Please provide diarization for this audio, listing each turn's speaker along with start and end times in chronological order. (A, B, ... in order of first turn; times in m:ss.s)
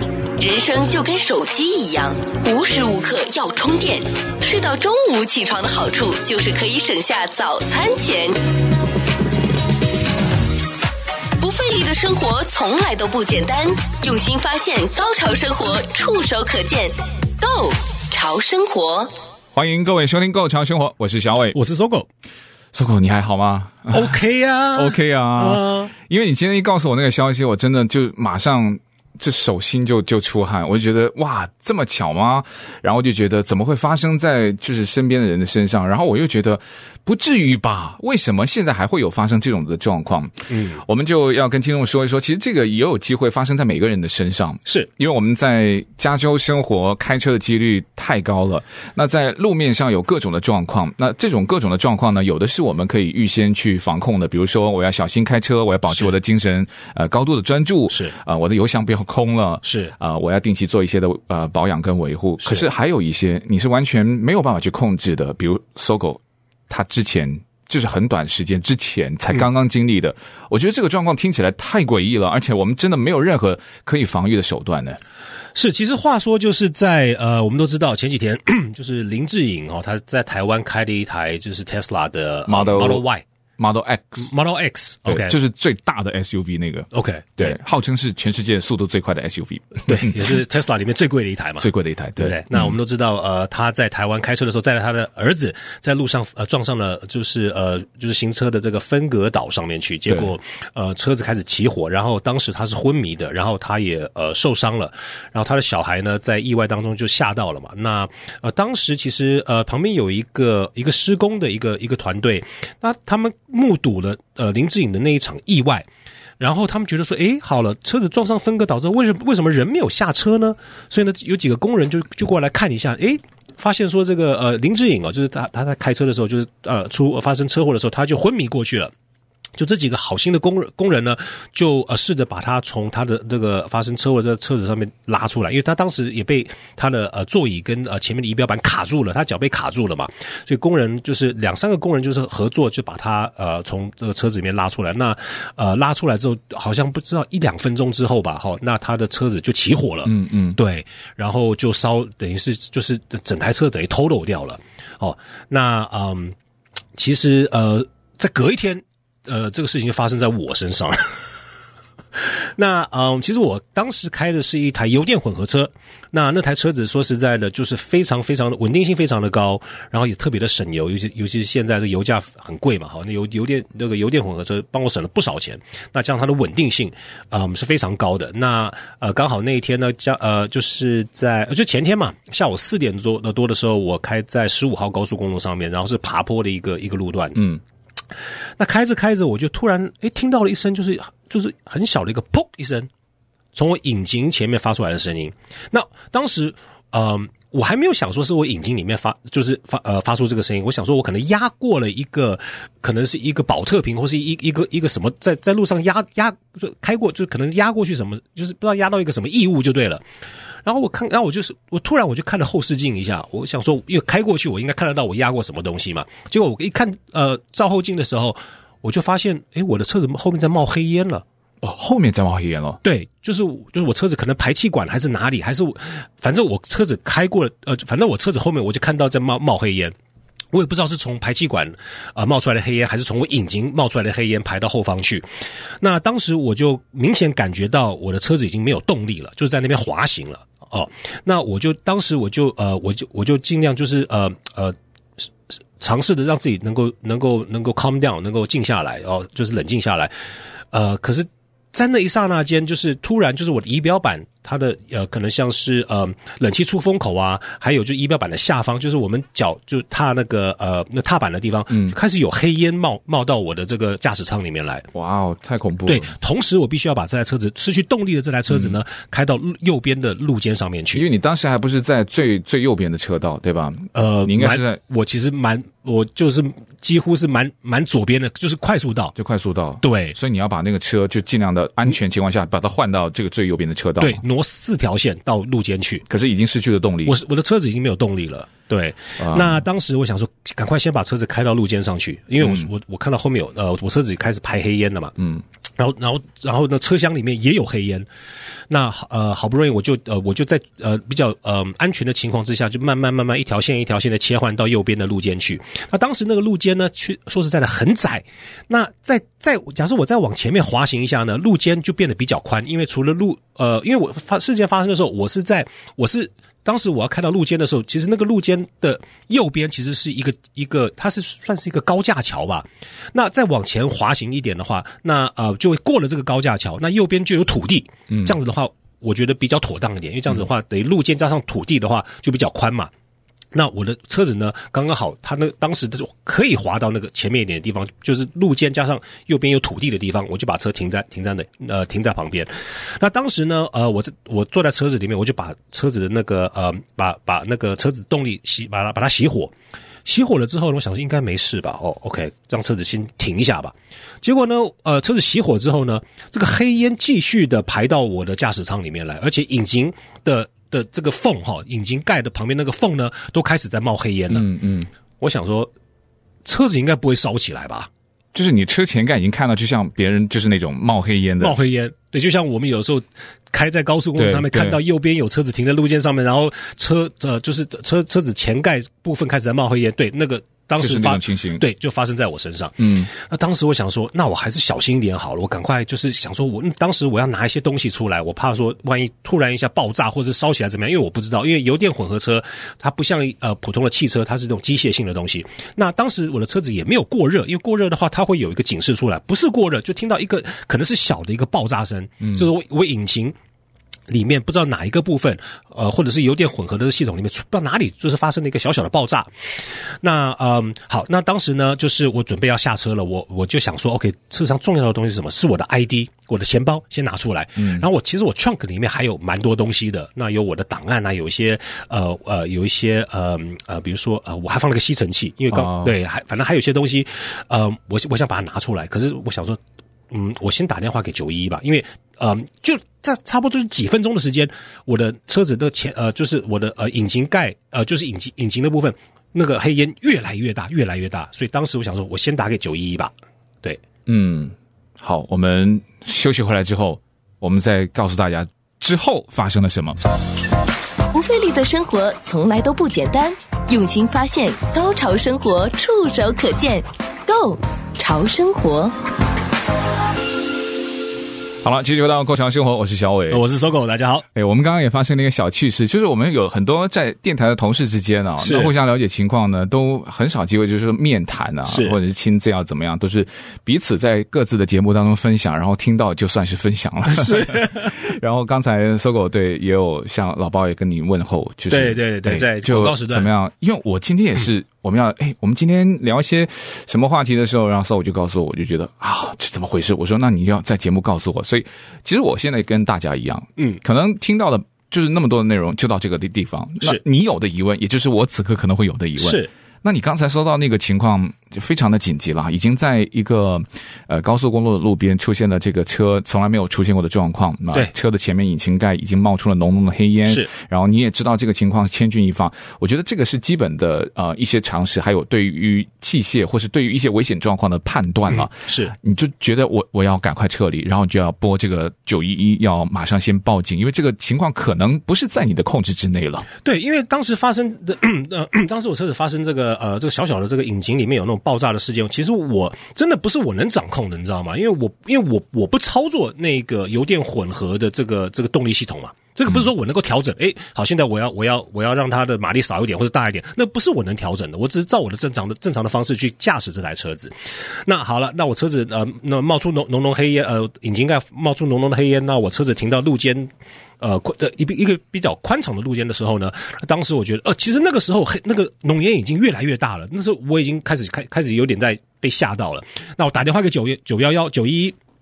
0:00.4-0:08.4 A
0:11.4-0:19.1 A
0:19.5-0:21.6 B
0:21.5-0:22.1 C
0:22.7-0:24.2 B
0:23.9-0:25.9 C
0:24.7-1:15.0 B
0:40.5-0:40.8 C
0:57.9-0:58.2 C
0:59.6-0:59.9 C
1:15.6-1:23.2 C
1:22.5-1:23.0 B
1:23.6-1:24.3 B
1:24.2-1:25.3 C
1:25.1-1:30.4 B
1:26.9-1:27.6 C
1:29.9-1:55.9 C
1:31.6-1:32.8 B
1:56.4-2:08.9 C
2:09.6-2:36.4 C
2:30.0-2:30.6 B
2:37.0-2:41.2 C
2:42.2-3:07.5 C
3:08.6-3:12.9 C
3:13.5-3:30.0 C
3:30.6-3:41.2 C
3:41.6-3:42.8 B
3:42.8-3:49.9 C
3:50.5-3:55.3 C
3:55.8-4:04.8 C
4:05.8-4:10.1 C
4:10.7-4:24.9 C
4:21.7-4:21.9 B
4:24.9-4:26.1 B
4:25.9-4:31.0 C
4:28.5-4:28.8 B
4:30.9-4:34.8 B
4:33.9-4:39.1 C
4:39.2-4:44.2 B
4:39.8-4:40.2 C
4:44.0-4:46.0 C
4:46.1-4:47.2 B
4:47.0-4:55.1 C
4:49.2-4:49.6 B
4:52.4-4:52.7 B
4:55.8-4:58.1 C
4:58.7-5:32.9 C
5:33.5-5:49.5 C
5:50.0-6:04.5 C
6:04.3-6:04.9 B
6:05.2-6:05.7 C
6:06.4-6:07.9 C
6:08.3-6:11.6 B
6:11.4-6:43.4 C
6:14.2-6:14.8 B
6:20.8-6:21.6 B
6:22.8-6:23.1 B
6:42.2-6:42.5 B
6:44.1-7:09.6 C
6:57.6-6:57.8 B
7:05.5-7:05.9 B
7:10.1-7:23.1 C
7:24.1-7:30.0 B
7:31.1-7:38.9 A
7:41.6-7:43.4 B
7:43.3-7:44.2 C
7:44.3-8:46.5 B
7:48.4-7:48.7 C
7:51.7-7:52.0 C
7:57.2-7:57.9 C
8:01.7-8:03.3 C
8:19.2-8:19.5 C
8:38.3-8:38.9 C
8:46.6-9:25.0 C